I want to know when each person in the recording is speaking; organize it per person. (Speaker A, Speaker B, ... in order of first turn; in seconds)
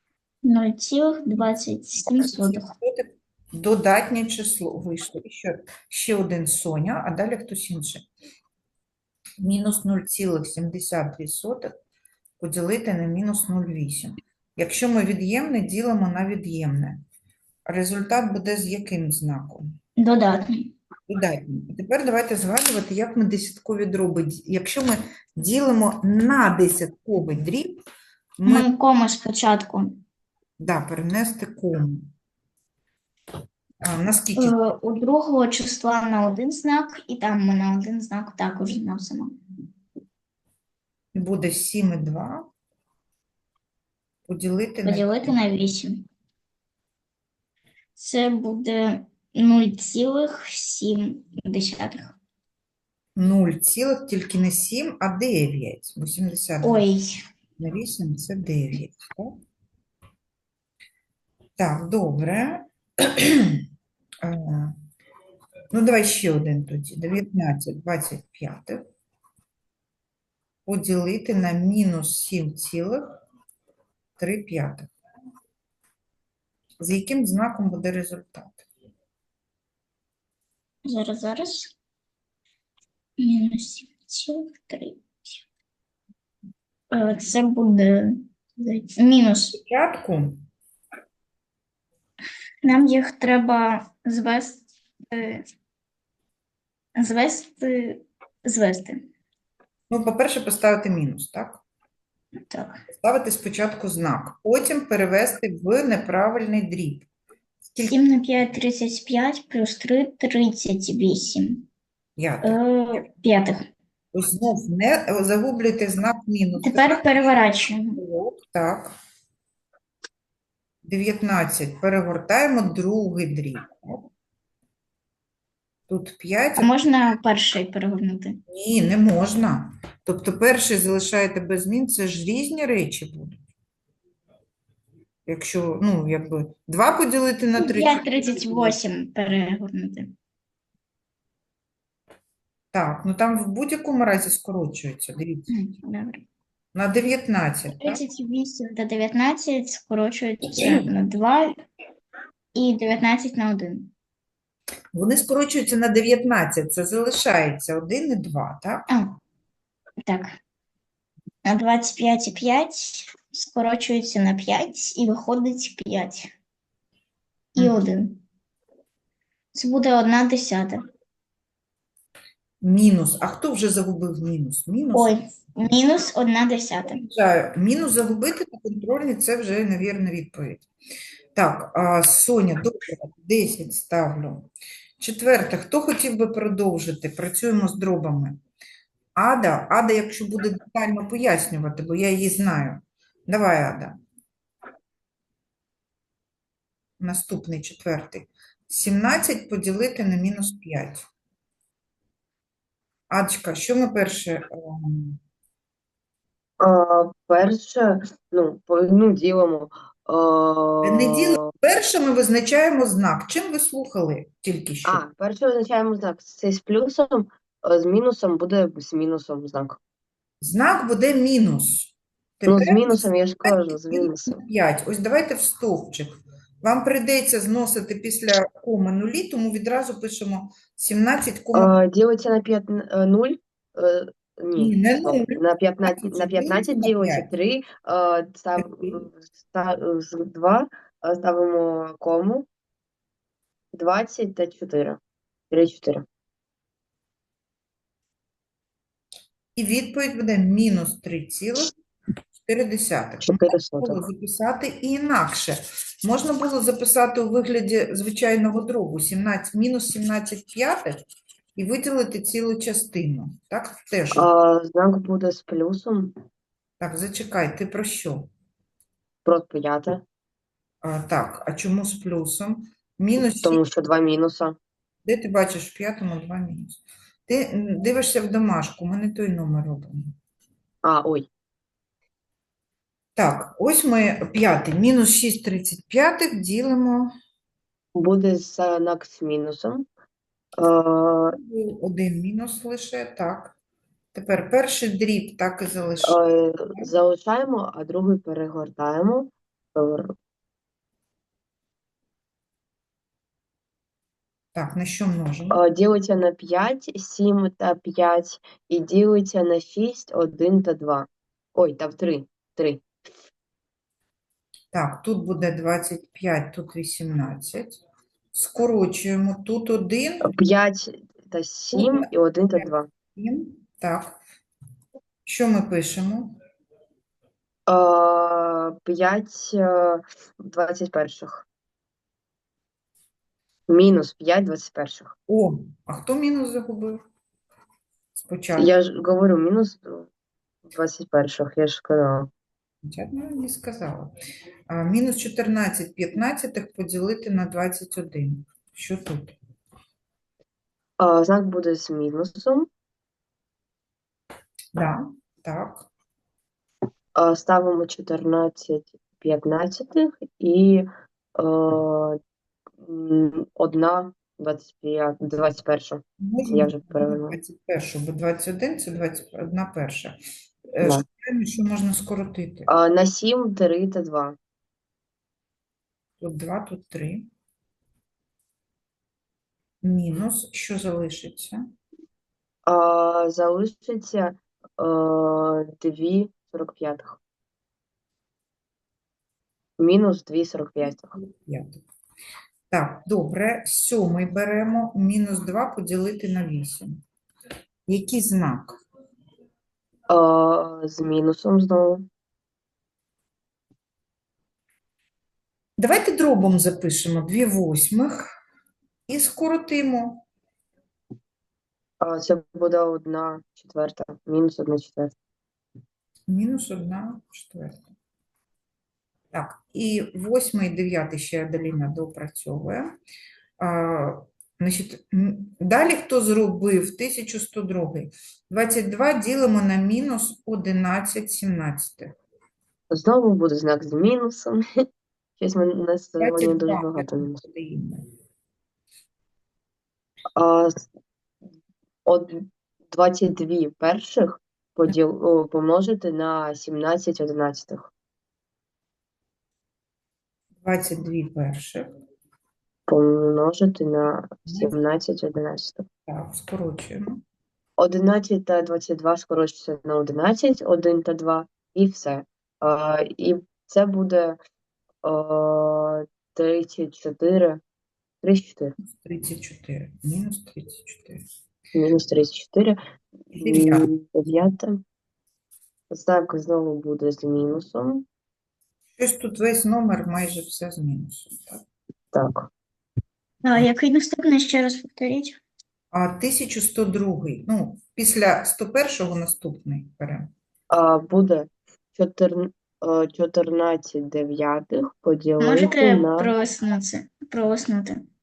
Speaker A: 0.4-2.7, 20.0-20.7, 28.4-30.0, 34.4-39.4, 44.8-46.0, 48.0-52.1, 56.6-57.2, 80.8-81.7, 83.2-85.4, 86.9-89.5, 92.6-95.4, 97.0-99.0, 102.5-102.8, 107.9-111.6, 112.4-113.7, 116.6-118.0, 126.6-128.4, 137.6-140.1, 145.5-146.2, 147.8-151.5, 152.5-153.9, 158.9-159.2, 160.0-160.4, 161.4-166.3, 167.5-168.2, 169.5-170.8, 174.9-177.0, 483.4-485.4, 495.4-498.0
Speaker B: 2.2-8.1, 9.4-11.7, 12.4-17.0, 17.7-19.7, 21.1-27.8, 28.4-28.7, 30.6-32.1, 33.8-34.5, 41.1-42.5, 44.3-45.1, 53.1-56.9, 57.6-59.4, 61.6-63.6, 64.2-64.8, 65.7-68.8, 70.7-73.2, 74.2-74.9, 76.8-78.7, 89.5-90.5, 99.9-101.6, 102.9-107.1, 107.7-108.0, 112.2-113.0, 114.1-117.1, 117.9-118.9, 120.8-124.1, 125.9-126.7, 128.5-133.4, 135.3-138.8, 142.7-145.5, 146.7-148.0, 154.9-158.9, 172.6-175.2, 176.9-180.7, 181.3-188.4, 189.2-194.0, 197.0-201.1, 203.1-205.2, 210.8-215.0, 220.4-231.7, 234.6-237.3, 238.6-239.1, 249.6-251.7, 252.3-261.0, 261.6-264.3, 266.8-268.3, 270.8-273.6, 275.1-280.1, 283.1-287.1, 291.3-293.5, 294.1-296.2, 304.5-305.6, 314.7-317.8, 318.3-320.3, 321.7-324.2, 325.2-326.4, 335.3-337.0, 338.1-338.7, 342.8-344.1, 344.7-349.4, 354.7-355.9, 366.2-370.2, 370.7-372.7, 376.2-377.3, 379.8-381.7, 391.1-391.8, 392.7-397.0, 397.9-398.8, 405.8-408.3, 409.1-410.2, 416.3-417.9, 419.3-422.9, 423.6-432.1, 436.2-438.1, 450.6-451.9, 454.4-454.7, 456.1-457.2, 468.8-471.2, 473.3-473.9, 479.0-481.6, 485.9-490.3
Speaker C: 206.6-211.5, 214.8-219.8, 222.5-224.3, 231.5-242.5, 243.7-245.0, 245.5-246.0, 253.2-254.0, 264.1-266.1, 269.2-270.0, 273.4-274.6, 280.8-281.3, 287.9-289.9, 290.6-291.4, 296.0-300.1, 305.5-312.8, 320.2-322.9, 327.7-331.4, 333.7-335.1, 338.6-340.1, 340.6-342.3, 351.0-352.7, 357.1-362.2, 362.8-367.4, 372.7-374.4, 382.6-387.2, 389.8-391.1, 400.1-402.1, 412.0-415.1, 432.9-434.9, 435.4-437.4, 440.3-440.8, 442.1-447.9, 452.9-455.9, 457.8-464.4, 465.0-467.6, 468.2-468.7, 471.7-472.8, 473.3-474.8, 475.9-478.0, 482.1-482.5, 490.7-496.3